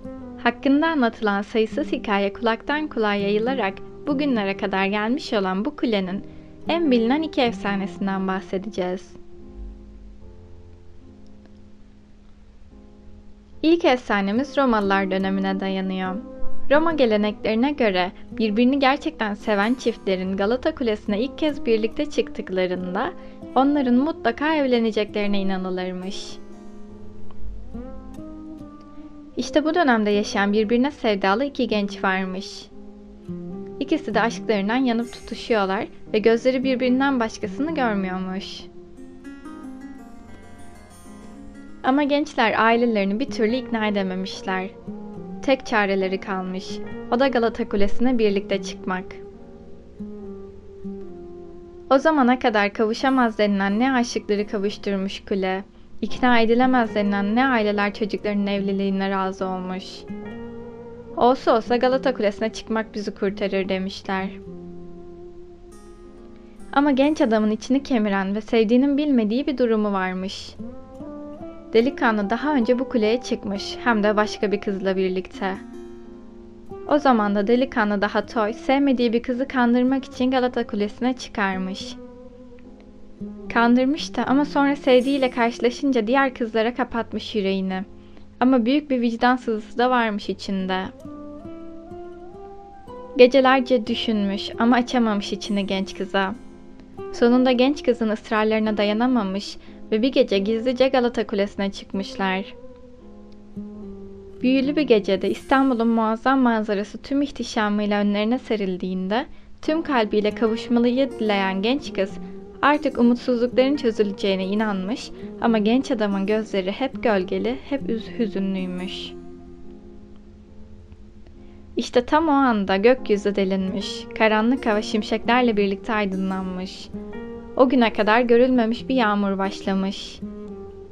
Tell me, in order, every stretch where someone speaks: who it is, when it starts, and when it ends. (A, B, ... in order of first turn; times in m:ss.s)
0:00.4-0:09.2 A
0:13.6-0:26.4 A
0:29.4-0:32.7 A
0:33.8-0:38.7 A
0:41.8-0:44.7 A
0:45.4-0:49.2 A
0:51.9-1:00.0 A
1:01.2-1:04.4 A
1:06.7-1:10.6 A
1:11.7-1:15.6 A
1:16.9-1:22.0 A
1:23.5-1:27.8 A
1:28.4-1:30.9 A
1:33.2-1:36.4 A
1:37.1-1:42.5 A
1:44.4-1:59.2 A
2:01.8-2:06.9 A
2:07.6-2:10.2 A